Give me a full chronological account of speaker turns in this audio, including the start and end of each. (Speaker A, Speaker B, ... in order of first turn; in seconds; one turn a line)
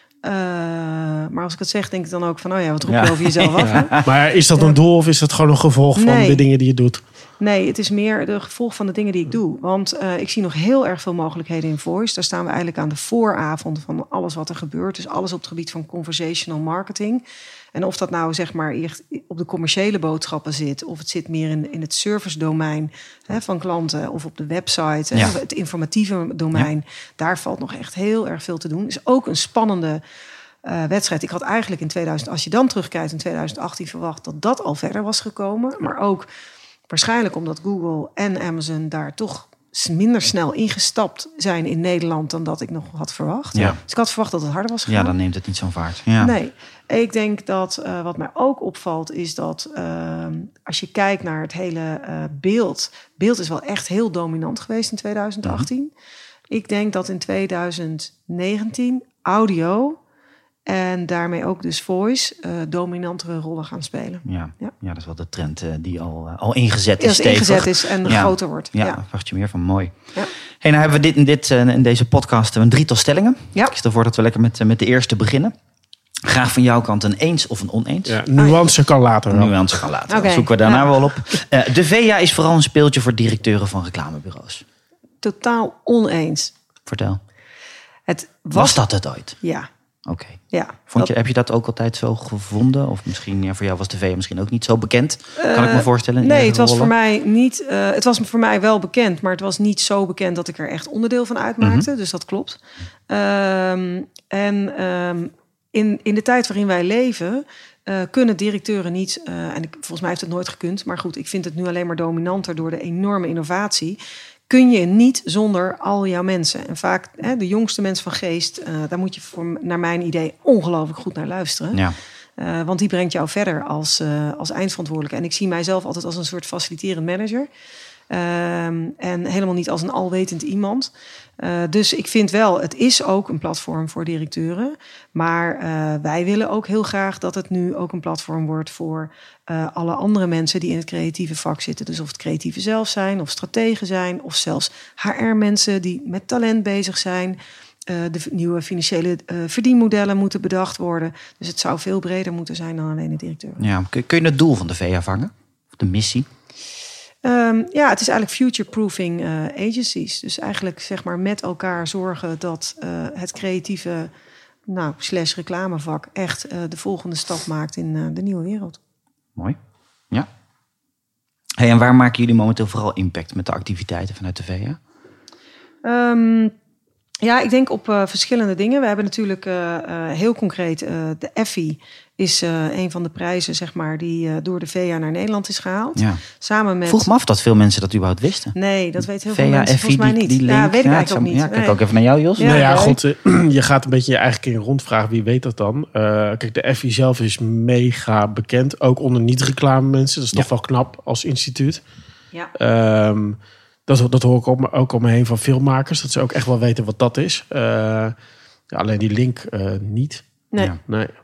Speaker A: 0.2-4.0
Speaker B: 2.9-4.1
Speaker C: 3.6-7.0
Speaker A: 6.0-6.4
Speaker A: 7.4-30.0
Speaker A: 30.6-36.3
Speaker A: 36.9-45.1
Speaker B: 44.9-46.3
Speaker A: 46.2-55.9
Speaker A: 56.5-60.0
Speaker A: 60.6-64.7
Speaker B: 64.2-75.5
Speaker A: 67.0-69.0
Speaker B: 76.2-78.2
Speaker C: 78.1-79.7
Speaker B: 79.3-84.6
Speaker A: 80.1-81.4
Speaker A: 85.2-86.5
Speaker B: 86.9-87.2
Speaker A: 88.1-88.8
Speaker B: 88.5-89.3
Speaker A: 89.4-89.7
Speaker B: 90.0-96.9
Speaker A: 90.5-91.1
Speaker A: 95.4-102.6
Speaker B: 101.6-101.9
Speaker A: 103.1-121.8
Speaker A: 122.4-127.5
Speaker A: 128.1-153.6
Speaker B: 153.6-156.3
Speaker A: 157.2-164.1
Speaker A: 164.7-168.8
Speaker B: 171.6-174.8
Speaker A: 175.8-176.5
Speaker A: 177.2-187.1
Speaker B: 185.9-186.2
Speaker B: 186.9-192.7
Speaker A: 188.5-191.8
Speaker A: 192.4-193.0
Speaker C: 192.4-201.8
Speaker C: 202.5-208.1
Speaker C: 208.7-210.2
Speaker C: 210.8-211.1